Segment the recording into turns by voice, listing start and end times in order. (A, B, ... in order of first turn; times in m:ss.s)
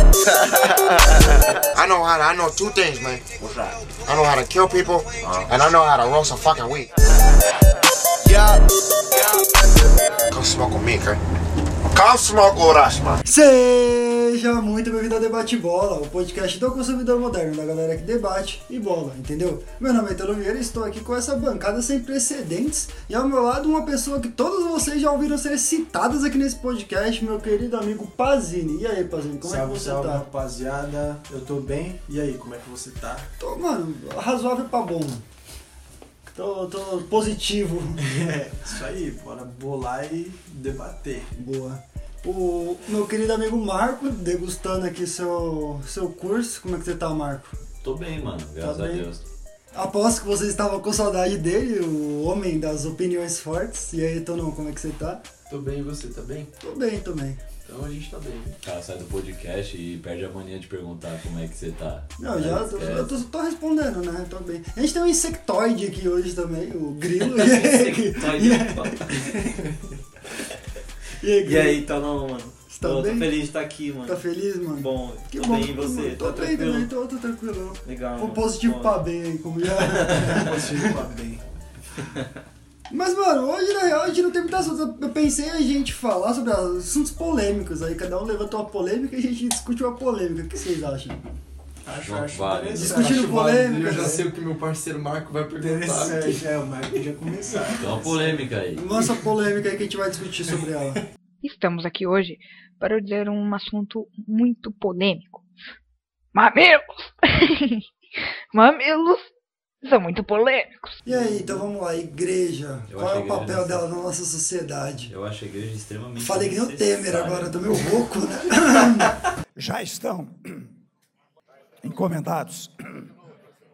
0:01.7-0:03.2 A
0:04.0-0:06.9 A
0:10.3-0:11.2 A
0:11.9-0:13.2 A
0:13.2-0:30.2 B
0:29.4-0:33.3 C
0:33.4-0:35.2 B
0:36.3-0:38.0 B
0:38.0-0:41.3 C
0:41.4-0:47.5 B
0:47.8-0:49.2 D
0:48.6-0:49.1 B
0:49.7-0:55.2 B
0:55.5-0:56.5 E
0:56.6-0:57.4 B
0:57.6-0:58.6 E
0:58.6-1:03.2 D
1:02.2-1:09.5 B
1:07.2-1:09.1 F
1:09.2-1:09.8 C
1:11.2-1:11.8 B
1:11.4-1:14.2 F
1:12.7-1:13.3 B
1:14.0-1:20.9 B
1:14.7-1:16.9 F
1:17.8-1:19.0 F
1:20.1-1:21.4 C
1:22.9-1:31.2 B
1:31.8-1:34.3 C
1:32.0-1:33.0 D
1:32.7-1:34.2 B
1:32.8-1:36.4 E
1:35.6-1:38.4 C
1:37.8-1:38.9 D
1:38.7-1:41.0 B
1:41.4-1:45.5 G
1:46.3-1:47.8 G
1:48.5-1:49.3 G
1:49.8-1:51.0 G
1:51.0-1:55.1 B
1:51.0-1:51.6 C
1:52.9-1:53.9 D
1:55.1-1:57.9 D
1:56.2-1:59.1 B
1:59.6-2:00.7 H
2:01.8-2:03.0 H